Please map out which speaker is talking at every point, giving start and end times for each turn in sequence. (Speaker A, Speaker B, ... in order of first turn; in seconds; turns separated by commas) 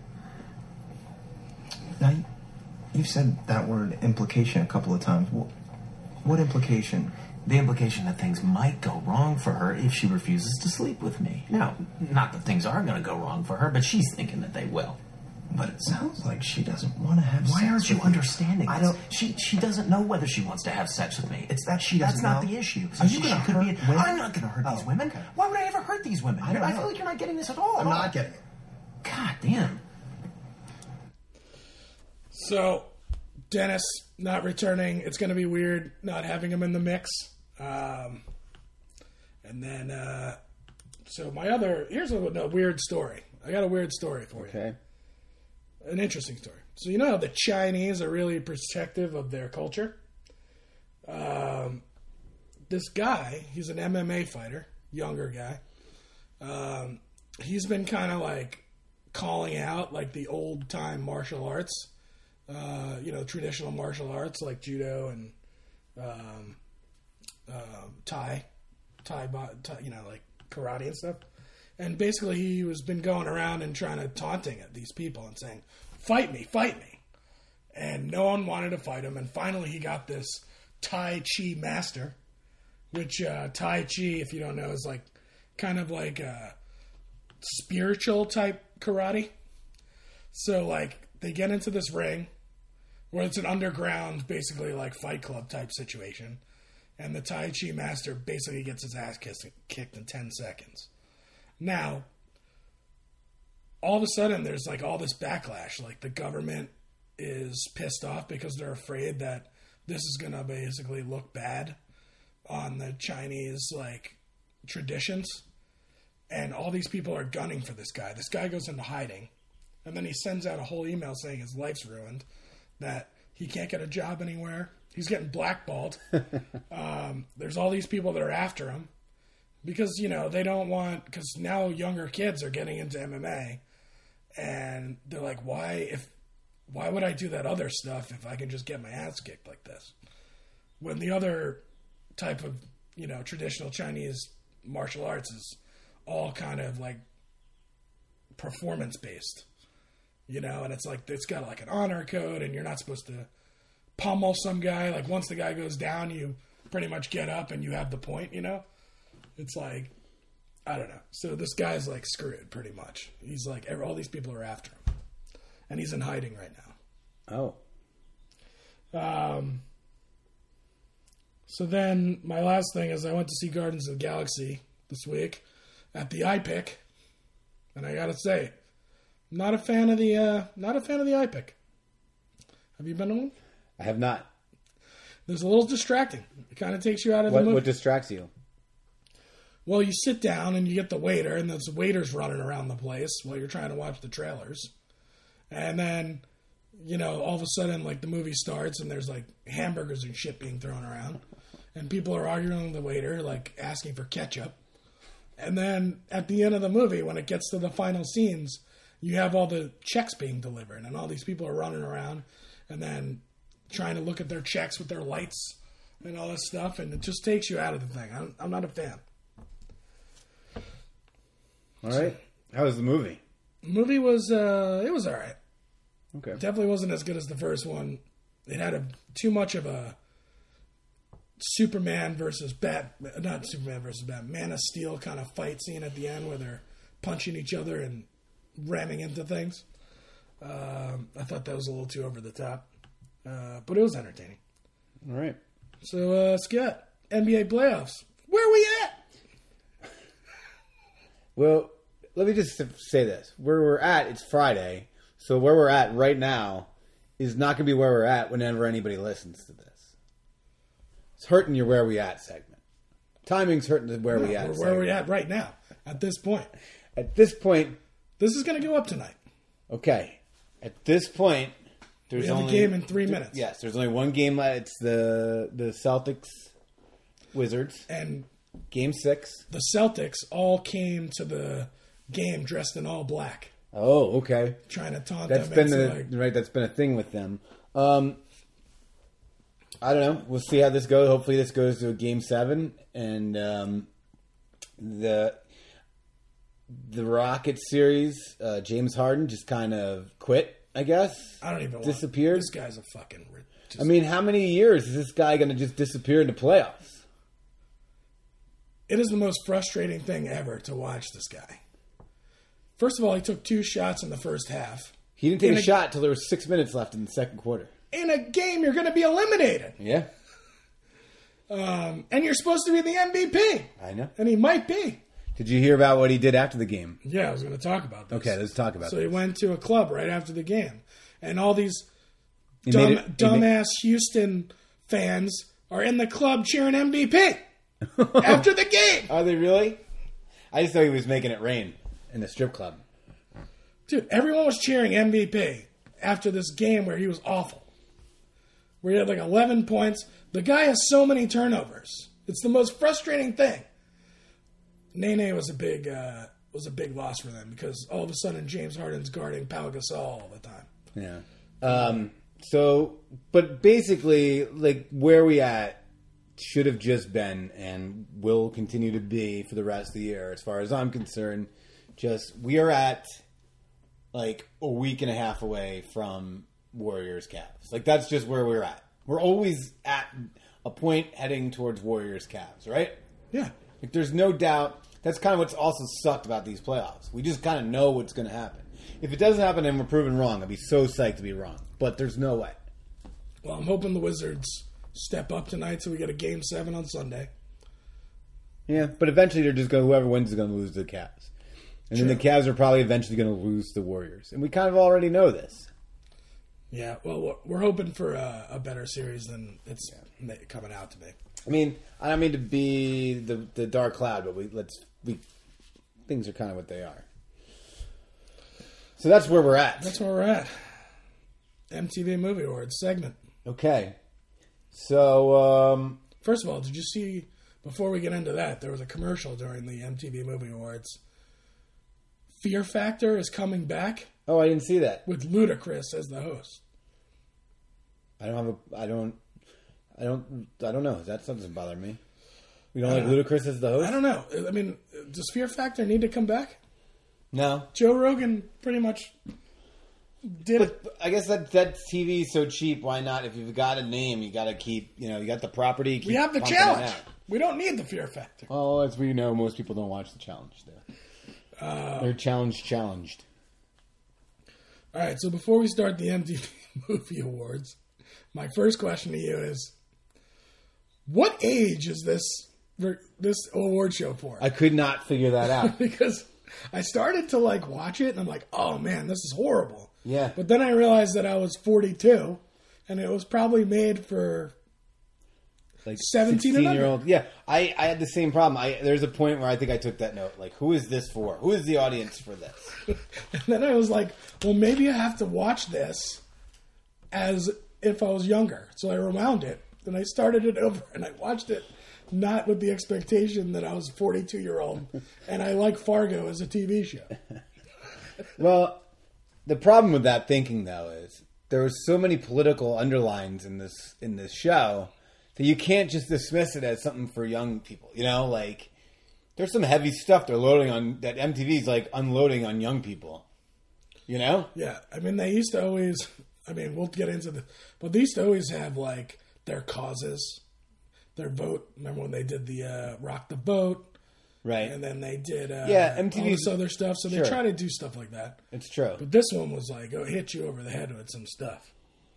Speaker A: 2.0-2.2, Speaker A: 2.9-5.5, Speaker A: 6.2-7.1, Speaker B: 7.5-15.0, Speaker A: 15.5-19.0, Speaker B: 17.4-28.1, Speaker A: 21.7-25.2, Speaker A: 26.4-26.9, Speaker A: 27.8-28.4, Speaker B: 29.0-29.8, Speaker C: 32.3-32.9, Speaker C: 33.5-38.2, Speaker C: 39.4-40.4, Speaker C: 41.0-44.6, Speaker D: 44.4-44.8, Speaker C: 45.8-50.0, Speaker C: 51.0-51.8, Speaker C: 52.7-55.6, Speaker C: 56.4-61.9, Speaker C: 62.5-65.3, Speaker C: 66.0-66.6, Speaker C: 67.5-68.4, Speaker C: 69.0-71.2, Speaker C: 71.8-77.0, Speaker C: 77.7-82.2, Speaker C: 82.9-86.5, Speaker C: 87.4-89.3, Speaker C: 90.3-92.3, Speaker C: 93.1-96.4, Speaker C: 97.0-100.9, Speaker C: 101.6-102.1, Speaker C: 103.8-111.8, Speaker C: 112.5-115.4, Speaker C: 116.3-119.3, Speaker C: 119.8-122.2, Speaker C: 122.8-126.0, Speaker C: 126.7-128.9, Speaker C: 129.6-133.6, Speaker C: 134.3-136.1, Speaker C: 136.7-139.9, Speaker C: 140.8-141.6, Speaker C: 142.2-147.0, Speaker C: 148.3-149.4, Speaker C: 150.3-153.3, Speaker C: 154.0-158.6, Speaker C: 159.4-159.9, Speaker C: 160.7-164.8, Speaker C: 165.7-166.7, Speaker D: 167.3-167.6, Speaker C: 168.9-169.6, Speaker C: 171.5-176.8, Speaker C: 177.7-178.5, Speaker C: 179.3-181.5, Speaker C: 182.8-183.3, Speaker D: 183.8-184.3, Speaker C: 185.3-187.7, Speaker D: 187.3-188.3, Speaker C: 189.7-194.7, Speaker C: 195.5-196.2, Speaker C: 196.8-201.2, Speaker C: 201.7-204.6, Speaker C: 205.4-219.0, Speaker D: 221.8-223.2, Speaker C: 223.6-225.4, Speaker D: 226.1-226.4, Speaker C: 226.3-229.9, Speaker C: 231.4-239.6, Speaker C: 240.4-242.7, Speaker C: 243.2-244.4, Speaker D: 245.0-245.4, Speaker C: 245.8-249.0, Speaker D: 251.3-259.9, Speaker D: 261.2-262.6, Speaker D: 263.2-265.0, Speaker C: 264.1-266.5, Speaker D: 266.9-267.8, Speaker C: 268.2-269.1, Speaker D: 269.7-271.6, Speaker D: 272.1-276.5, Speaker C: 272.1-273.4, Speaker D: 277.3-277.8, Speaker C: 277.9-278.3, Speaker D: 278.7-279.4, Speaker C: 279.5-283.5, Speaker D: 283.7-284.6, Speaker C: 284.7-286.1, Speaker D: 285.3-288.2, Speaker D: 289.8-293.9, Speaker D: 294.8-295.4, Speaker D: 296.7-302.5, Speaker C: 301.4-303.9, Speaker D: 303.8-307.0, Speaker C: 308.9-311.6, Speaker C: 312.8-315.8, Speaker D: 315.2-317.7, Speaker C: 317.9-319.8, Speaker D: 319.8-320.1, Speaker C: 321.5-325.0, Speaker D: 323.8-324.1, Speaker D: 325.4-327.0, Speaker C: 327.0-331.9, Speaker D: 328.1-329.2, Speaker D: 332.6-333.5, Speaker C: 332.7-337.4, Speaker D: 338.0-338.4, Speaker C: 338.1-339.1, Speaker D: 339.1-339.8, Speaker D: 340.5-342.8, Speaker C: 343.9-347.7, Speaker C: 348.8-353.6, Speaker C: 354.9-360.7, Speaker D: 360.9-365.8, Speaker D: 366.4-373.2, Speaker D: 374.1-383.0, Speaker D: 383.8-392.6, Speaker C: 393.4-397.3, Speaker D: 398.7-401.3, Speaker D: 401.9-405.7, Speaker C: 401.9-402.2, Speaker C: 406.7-411.1, Speaker D: 411.4-415.2, Speaker D: 416.1-417.0, Speaker D: 419.0-419.9, Speaker C: 419.8-420.5, Speaker C: 421.7-423.2, Speaker D: 423.4-423.9, Speaker D: 424.7-426.0, Speaker C: 426.2-431.0, Speaker C: 432.4-434.1, Speaker D: 434.2-435.0, Speaker C: 435.1-436.6, Speaker D: 438.2-439.2, Speaker D: 439.9-442.0, Speaker D: 442.7-444.0, Speaker C: 442.8-443.2, Speaker C: 443.8-446.6, Speaker D: 447.3-447.7, Speaker C: 447.7-449.1, Speaker C: 450.2-450.7, Speaker D: 450.5-457.1, Speaker C: 456.0-458.5, Speaker D: 458.5-460.8, Speaker C: 461.6-462.1, Speaker D: 462.0-463.2, Speaker C: 464.9-467.8, Speaker C: 468.3-469.7, Speaker C: 471.1-474.5, Speaker D: 474.4-475.8, Speaker C: 475.4-484.5, Speaker D: 480.0-480.4, Speaker D: 485.8-492.7, Speaker C: 486.0-487.0, Speaker C: 493.3-496.2, Speaker C: 497.1-507.1, Speaker D: 508.4-508.8, Speaker D: 509.4-518.7, Speaker D: 519.4-523.2, Speaker D: 524.1-524.5, Speaker C: 524.5-530.4, Speaker C: 531.1-533.9, Speaker D: 534.4-534.7, Speaker C: 534.6-538.4, Speaker D: 535.6-537.4, Speaker D: 538.5-539.0, Speaker C: 539.0-541.7